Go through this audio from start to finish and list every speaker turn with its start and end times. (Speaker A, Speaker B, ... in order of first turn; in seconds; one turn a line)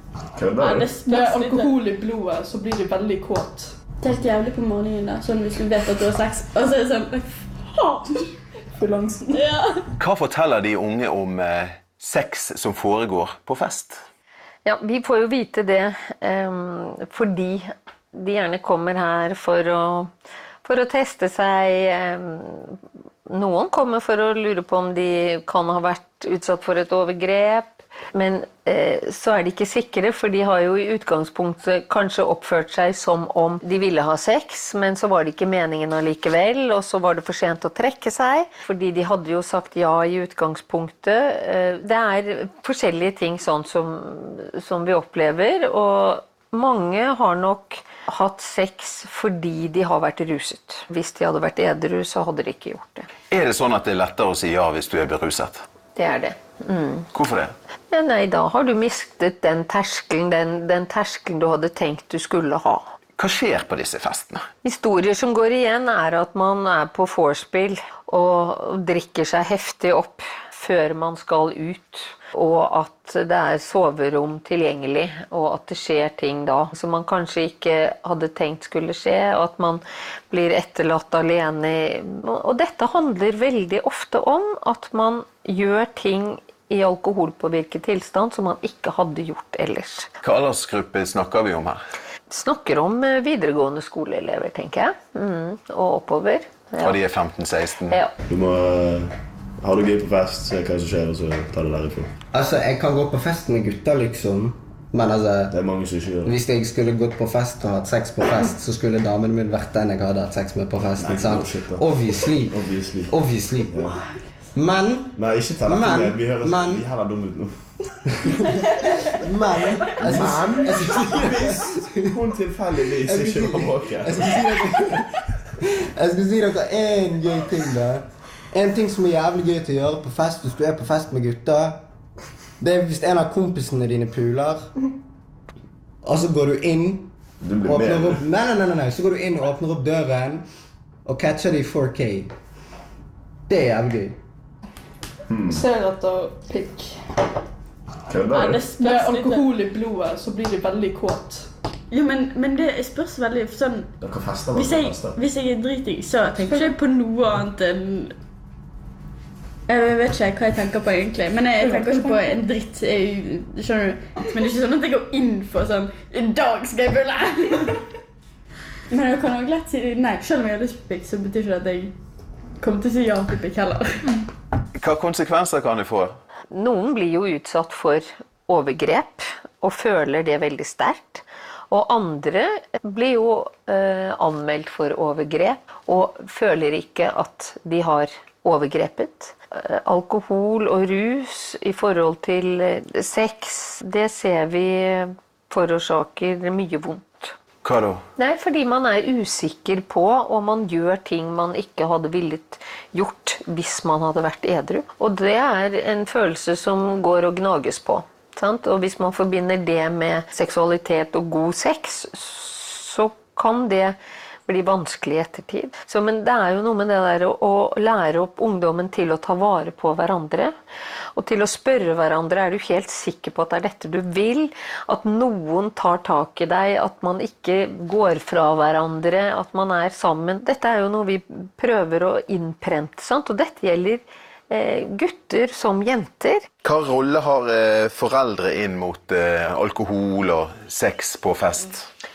Speaker A: 0.3-1.0
Speaker B: 0.6-1.8
Speaker C: 1.1-3.7
Speaker B: 4.0-8.2
Speaker C: 8.8-9.4
Speaker B: 9.3-9.8
Speaker D: 10.0-14.0
Speaker E: 14.6-20.1
Speaker E: 20.6-53.1
Speaker D: 53.3-55.6
Speaker E: 56.0-57.1
Speaker D: 57.1-57.5
Speaker E: 57.9-62.8
Speaker D: 63.2-64.4
Speaker E: 64.6-90.1
Speaker D: 90.2-91.8
Speaker E: 92.3-97.0
Speaker D: 96.8-98.0
Speaker A: 98.3-102.1
Speaker F: 102.3-105.5
Speaker A: 105.5-106.3
Speaker F: 106.2-113.8
Speaker A: 111.0-113.1
Speaker A: 113.6-114.0
Speaker F: 114.5-116.8
Speaker A: 115.1-118.4
Speaker F: 118.3-122.2
Speaker A: 119.9-124.7
Speaker F: 123.0-131.8
Speaker F: 132.6-134.7
Speaker F: 136.0-137.1
Speaker A: 137.4-138.2
Speaker F: 137.6-140.4
Speaker F: 141.1-142.3
Speaker F: 143.5-144.2
Speaker A: 145.3-145.7
Speaker C: 145.5-146.9
Speaker A: 148.1-148.8
Speaker B: 148.3-149.5
Speaker C: 148.8-151.5
Speaker B: 151.9-153.9
Speaker A: 154.0-155.2
Speaker B: 154.5-158.1
Speaker B: 159.7-167.8
Speaker B: 168.9-171.9
Speaker B: 172.6-174.2
Speaker D: 174.8-176.1
Speaker E: 176.5-197.3
Speaker D: 197.6-198.0
Speaker E: 198.2-213.9
Speaker E: 214.5-220.5
Speaker E: 221.1-236.5
Speaker D: 236.6-241.8